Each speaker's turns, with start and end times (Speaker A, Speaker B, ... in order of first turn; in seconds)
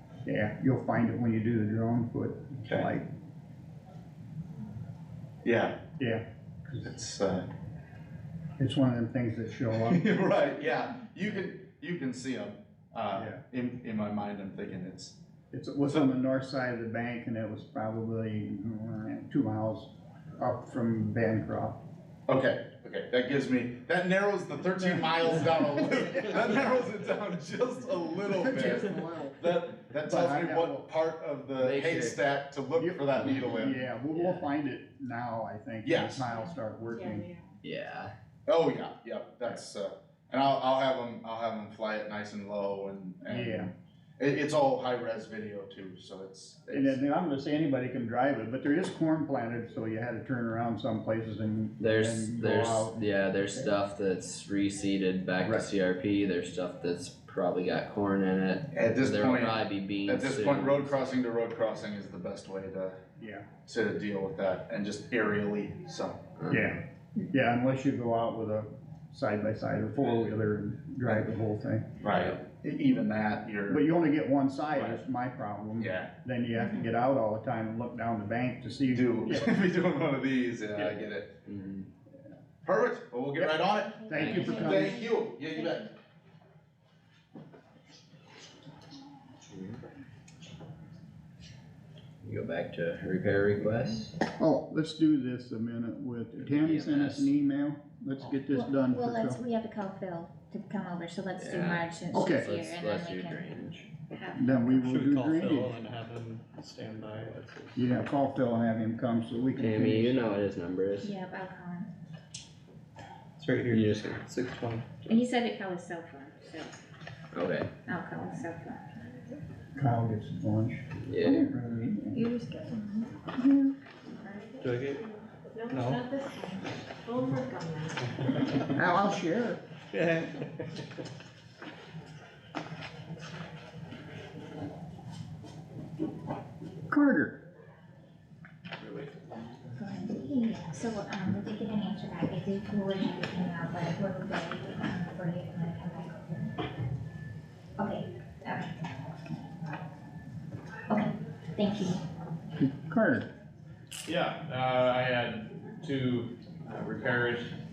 Speaker A: 0.2-3.1, 6.0-6.9, 8.6-10.1, 13.1-13.4, 15.5-21.8, 28.3-29.4, 30.0-30.8, 32.8-37.3, 43.3-43.7, 46.7-53.7, 55.4-55.7, 63.2-63.5, 66.5-71.8, 73.7-79.5, 83.4-85.0, 94.4-99.4, 102.1-102.5, 104.3-105.7, 107.8-110.4, 119.8-122.2, 128.7-129.6, 136.9-137.4, 152.6-153.3
Speaker B: 5.4-5.8, 6.8-7.5, 9.8-15.2, 22.3-33.8, 35.8-36.2, 38.5-47.0, 58.7-63.0, 63.6-66.2, 72.0-73.8, 74.7-75.0, 75.8-76.1, 78.9-81.3, 82.6-85.9
Speaker C: 31.6-32.2, 34.1-34.5, 37.6-38.1, 51.8-61.0, 66.4-66.7, 81.5-81.9, 89.5-89.8, 92.2-94.1, 96.4-97.3, 101.4-103.9, 109.6-111.1, 113.7-114.8, 117.3-117.7, 121.1-121.5
Speaker D: 36.9-37.4, 122.2-123.0, 124.3-128.0
Speaker E: 84.0-84.9, 98.5-105.0, 111.0-111.9, 115.0-116.7, 117.8-118.8, 139.8-146.6, 147.8-148.8, 150.9-152.0
Speaker F: 104.6-107.8, 113.4-113.8, 124.6-125.0, 125.7-126.0, 129.9-130.5
Speaker G: 138.8-139.4, 154.1-157.5